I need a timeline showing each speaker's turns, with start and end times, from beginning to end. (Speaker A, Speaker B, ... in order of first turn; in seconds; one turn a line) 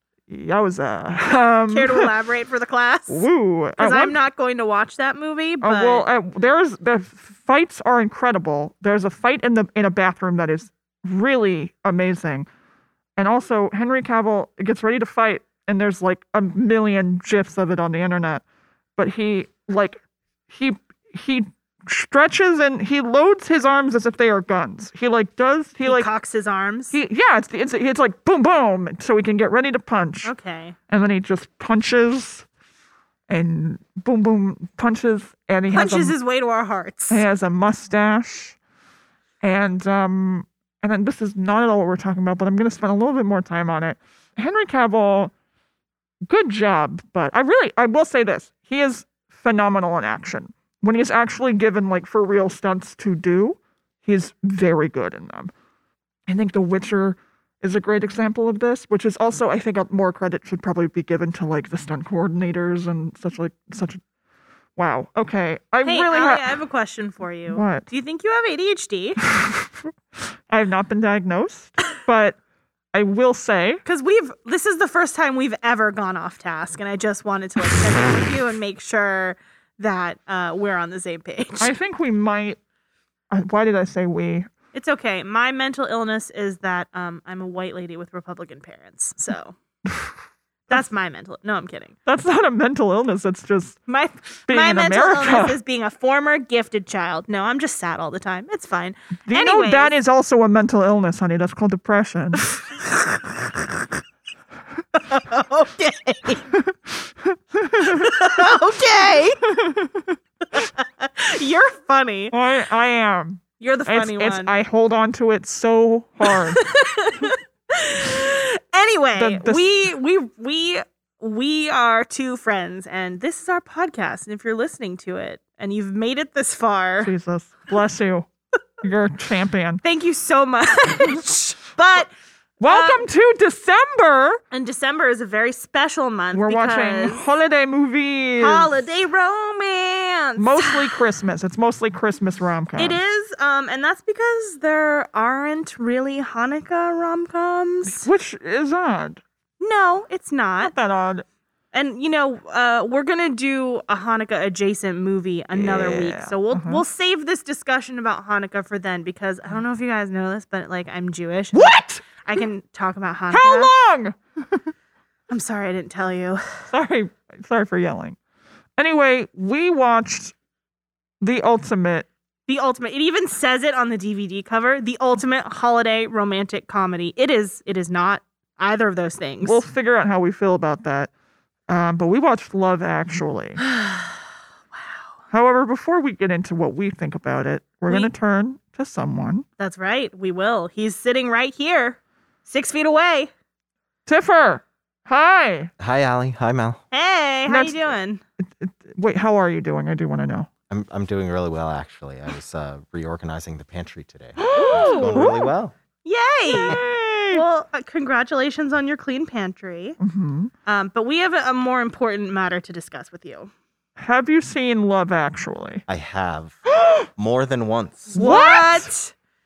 Speaker A: 0.3-2.1
Speaker B: 1.7-3.3
Speaker A: 3.1-4.2
Speaker B: 3.8-6.1
Speaker A: 5.6-12.5
Speaker A: 13.2-18.4
Speaker A: 18.9-26.1
Speaker B: 25.8-26.9
Speaker A: 26.9-30.3
Speaker B: 30.2-30.8
Speaker A: 30.9-32.5
Speaker A: 33.3-36.1
Speaker B: 35.7-37.2
Speaker A: 37.1-38.6
Speaker A: 39.4-45.3
Speaker A: 46.3-55.5
Speaker A: 56.3-64.0
Speaker A: 64.8-66.5
Speaker B: 65.8-69.2
Speaker A: 67.5-67.8
Speaker A: 69.2-72.4
Speaker A: 72.9-73.8
Speaker B: 73.8-81.7
Speaker A: 81.6-82.6
Speaker A: 83.3-84.5
Speaker B: 84.7-89.5
Speaker A: 89.8-90.2
Speaker B: 90.7-91.9
Speaker A: 92.0-93.8
Speaker B: 93.9-99.9
Speaker A: 94.5-95.6
Speaker A: 99.3-102.5
Speaker B: 102.5-103.8
Speaker B: 105.0-106.4
Speaker A: 106.5-108.3
Speaker B: 107.8-109.4
Speaker A: 109.4-110.7
Speaker B: 110.5-112.3
Speaker A: 112.3-116.6
Speaker B: 113.6-114.5
Speaker B: 116.3-127.1
Speaker A: 119.2-119.9
Speaker A: 127.0-128.3
Speaker A: 128.8-129.8
Speaker B: 129.8-132.1
Speaker A: 132.6-134.4
Speaker B: 132.6-133.0
Speaker B: 134.5-137.2
Speaker A: 136.3-138.7
Speaker B: 138.4-141.0
Speaker A: 140.4-143.0
Speaker B: 142.8-148.1
Speaker A: 147.8-149.2
Speaker B: 149.6-150.7
Speaker A: 150.6-151.2
Speaker B: 151.7-163.7
Speaker A: 155.5-156.8
Speaker A: 161.5-162.0
Speaker A: 163.3-164.7
Speaker B: 165.3-166.4
Speaker A: 166.7-168.2
Speaker A: 168.8-170.3
Speaker A: 171.2-172.1
Speaker B: 172.5-179.6
Speaker A: 179.4-181.1
Speaker A: 181.7-183.6
Speaker B: 183.6-184.2
Speaker A: 185.3-189.4
Speaker B: 189.6-193.3
Speaker A: 194.1-195.7
Speaker C: 195.8-196.8
Speaker B: 196.9-198.2
Speaker A: 197.5-197.9
Speaker A: 198.4-200.5
Speaker C: 200.7-205.7
Speaker A: 204.4-205.5
Speaker B: 204.5-205.3
Speaker B: 206.0-210.0
Speaker A: 206.5-207.4
Speaker A: 210.0-210.5
Speaker B: 210.7-213.5
Speaker A: 214.0-215.8
Speaker C: 215.9-216.6
Speaker A: 216.7-217.1
Speaker C: 217.2-218.2
Speaker B: 218.1-219.1
Speaker A: 218.1-218.9